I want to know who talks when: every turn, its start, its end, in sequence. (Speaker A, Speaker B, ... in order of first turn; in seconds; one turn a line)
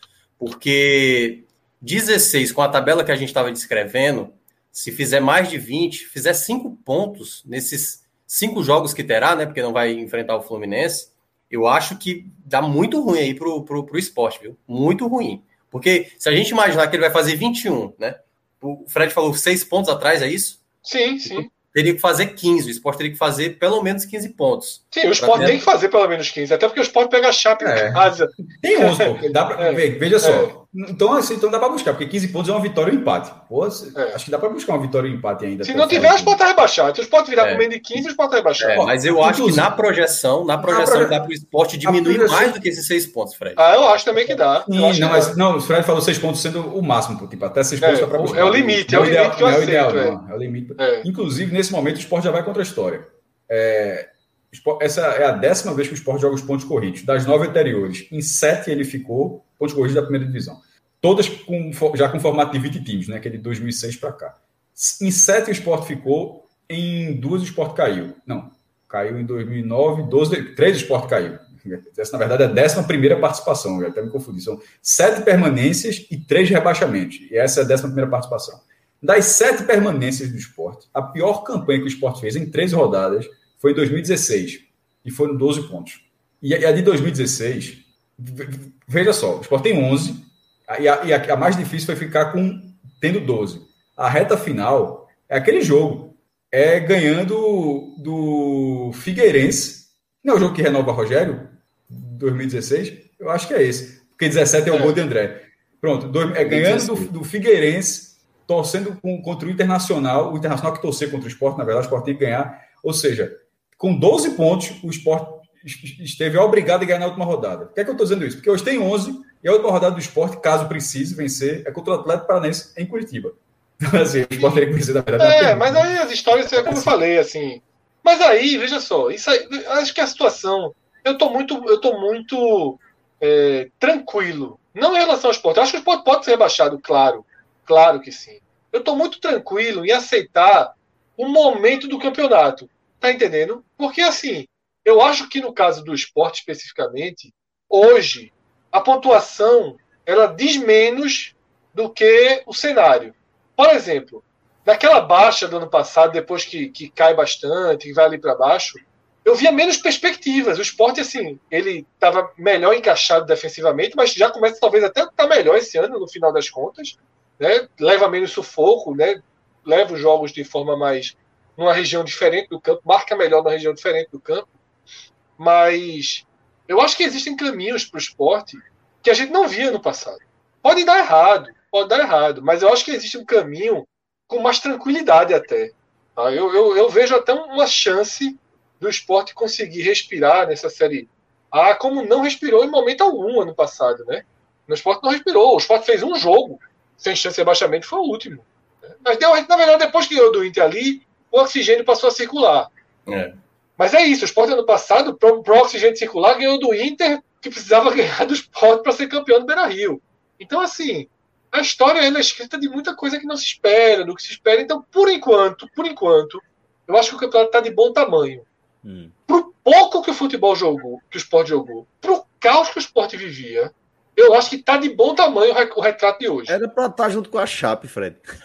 Speaker A: 0.4-20.6
Speaker B: 20.8-21.5
Speaker A: 21.3-25.6
Speaker B: 24.9-30.5
Speaker C: 27.6-36.4
Speaker B: 34.0-34.2
Speaker B: 35.6-38.9
Speaker A: 37.4-37.6
Speaker A: 38.6-43.8
Speaker C: 38.7-39.7
Speaker C: 40.6-41.2
Speaker C: 41.8-42.6
Speaker B: 43.6-45.4
Speaker C: 44.7-125.9
Speaker B: 47.8-50.2
Speaker B: 50.8-51.0
Speaker B: 104.7-105.0
Speaker A: 106.4-107.1
Speaker B: 125.2-174.5
Speaker C: 126.5-127.0
Speaker B: 175.4-202.7
Speaker A: 203.1-203.4
Speaker B: 203.8-218.4
Speaker D: 218.8-219.1
Speaker B: 219.3-226.6
Speaker D: 226.5-228.2